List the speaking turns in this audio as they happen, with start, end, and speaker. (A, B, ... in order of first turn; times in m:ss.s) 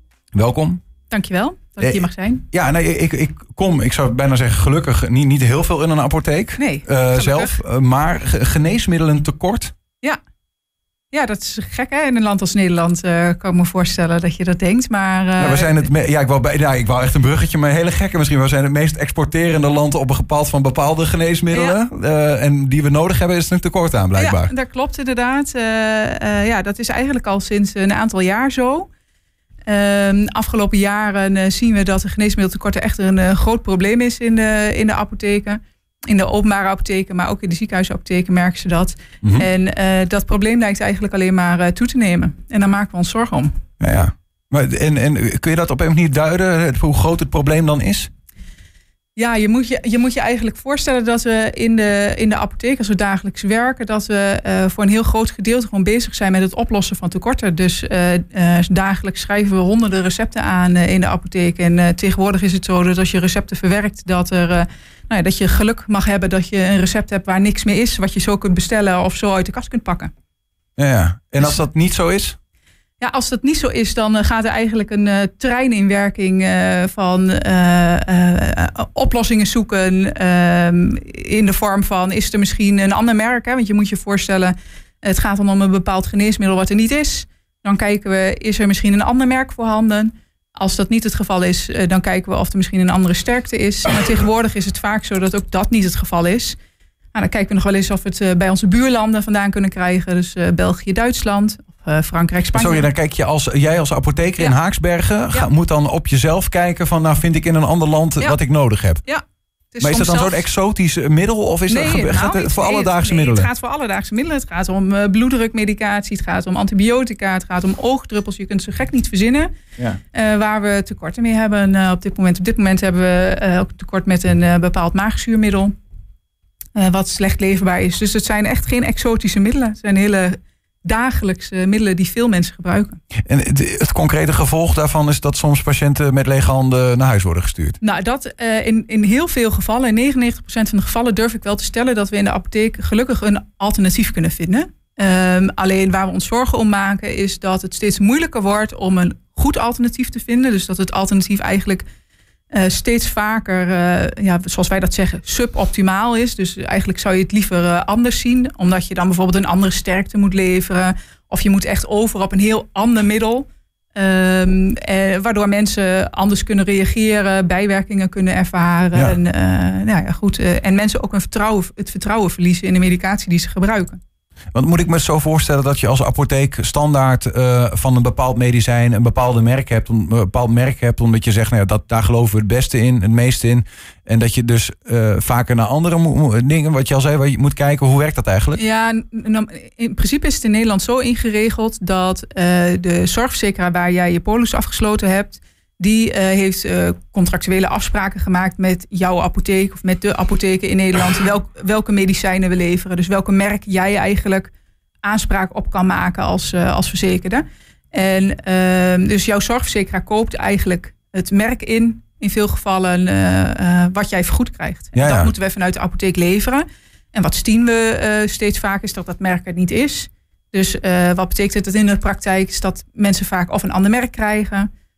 0:00.4-0:00.8 A
0:01.1-0:02.4 B
0:01.8-0:09.7 A
0:06.6-0:07.6 B
0:11.1-0:15.8 B
0:15.4-0:24.5 A
0:21.5-0:21.8 B
0:24.2-0:28.9 B
0:29.7-0:43.6 B
0:39.2-0:39.5 A
0:43.8-0:48.1 A
0:49.2-1:10.1 B
1:10.8-1:12.4 A
1:13.0-1:36.6 B
1:37.1-1:42.9 B
1:42.5-1:49.0 A
1:49.0-1:50.4 B
1:49.8-1:53.5 A
1:51.7-1:59.5 B
2:00.1-2:05.7 B
2:06.8-2:13.0 B
2:13.2-2:17.8 A
2:17.8-2:31.8 B
2:32.5-2:54.0 B
2:54.5-3:08.6 A
3:08.6-3:24.5 B
3:25.0-3:44.7 B
3:34.9-3:35.3 A